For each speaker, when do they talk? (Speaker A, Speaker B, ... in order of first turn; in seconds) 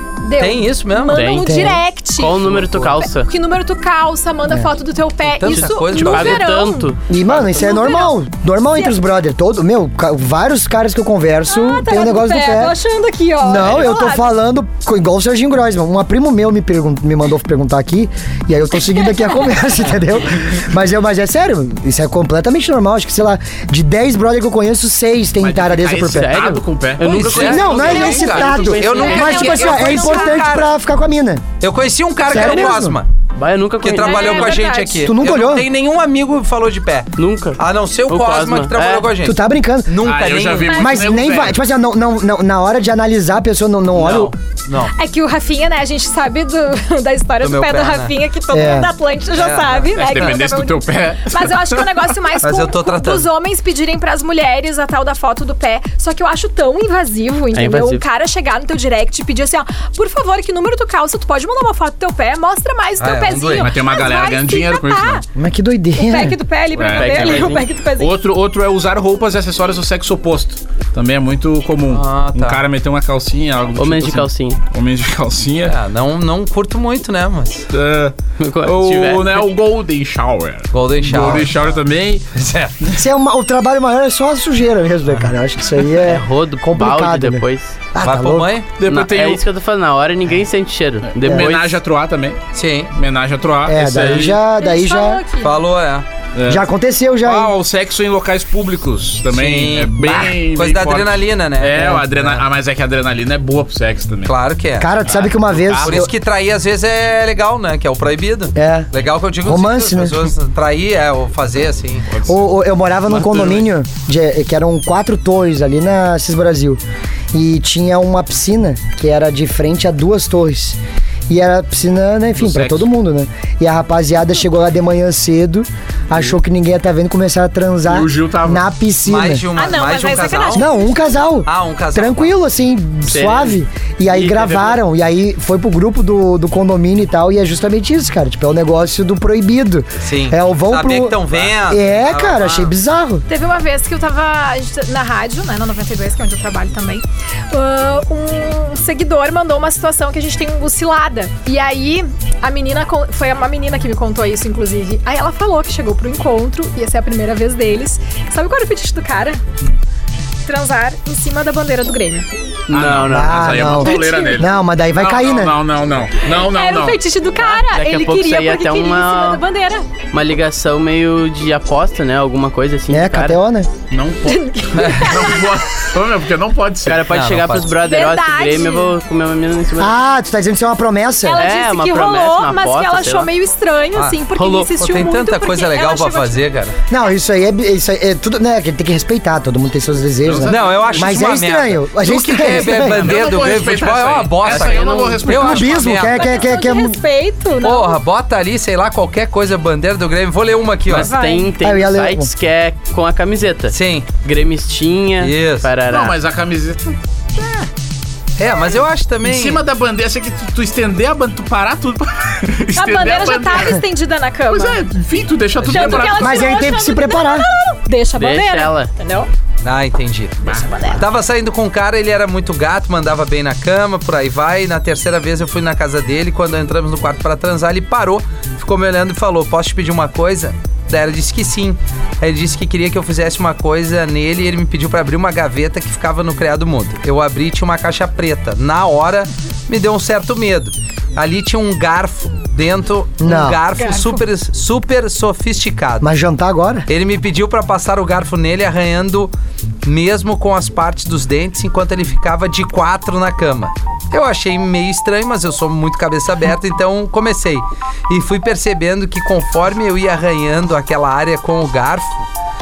Speaker A: 0.2-8.2, 11.5-14.3, 18.8-19.8, 27.7-30.4, 34.0-35.1, 40.7-41.0, 44.9-65.2, 66.0-68.2, 94.5-95.6, 129.5-130.9, 143.3-159.4, 160.4-162.3, 163.8-164.4, 166.4-169.9, 174.2-175.6, 177.8-179.0, 181.2-186.4, 196.0-198.0, 201.0-201.5, 212.7-214.8, 215.6-219.3, 220.5-221.0, 243.7-244.2
Speaker B: 0.4-1.2, 2.5-2.9, 5.4-6.5, 27.0-30.7, 31.6-33.1, 33.8-40.8, 43.9-44.9, 47.4-48.1, 49.3-50.4, 52.4-53.3, 63.0-63.7, 71.9-72.6, 75.7-77.7, 80.7-81.6, 82.3-82.9, 88.0-88.7, 92.5-92.9, 95.4-96.0, 99.3-102.2, 104.2-104.9, 105.8-112.1, 129.0-130.7, 131.4-132.3, 140.0-142.7, 174.8-175.2, 177.0-177.8, 183.9-186.8, 190.4-196.4, 197.6-201.1, 203.7-204.1, 205.2-205.7, 208.4-209.6, 215.6-216.4, 219.6-246.1, 246.9-249.3, 249.8-262.3
Speaker C: 1.1-3.3, 5.9-7.0, 26.1-29.6, 33.3-34.6, 37.1-39.1, 57.5-58.0, 66.9-67.6, 73.8-74.6, 78.4-79.4, 86.0-87.7, 88.8-91.8, 93.8-94.4, 133.1-134.8, 162.7-163.8, 167.4-169.4, 170.1-173.4, 176.8-180.0, 181.4-183.3, 194.4-195.6, 200.9-206.2, 218.2-218.9
Speaker D: 1.3-1.8, 7.1-12.8, 13.4-26.3, 27.3-31.4, 32.2-33.0, 35.0-35.6, 39.2-40.0, 40.8-44.3, 48.5-48.9, 65.3-66.4, 81.1-81.5, 82.9-88.5, 93.6-95.2, 96.5-97.5, 104.8-106.1, 108.5-108.9, 109.4-110.3, 112.2-116.8, 117.3-129.4, 130.5-143.2, 163.0-165.6, 172.9-173.7, 179.8-181.4, 186.9-193.2, 195.4-197.0, 201.6-202.3, 216.2-217.5, 243.2-243.6, 246.0-246.8
Speaker E: 25.4-27.6, 40.0-41.6, 49.9-52.1, 63.6-65.2, 66.7-75.8, 77.7-82.3, 88.8-89.4, 91.1-92.4, 92.9-94.4, 96.3-96.6, 97.2-104.3, 105.0-106.1, 112.1-112.4, 113.1-113.7, 122.3-122.9, 127.9-128.6, 162.7-167.0, 173.9-177.0, 190.2-191.2, 192.6-196.0, 205.9-207.7, 209.2-213.8, 214.5-216.4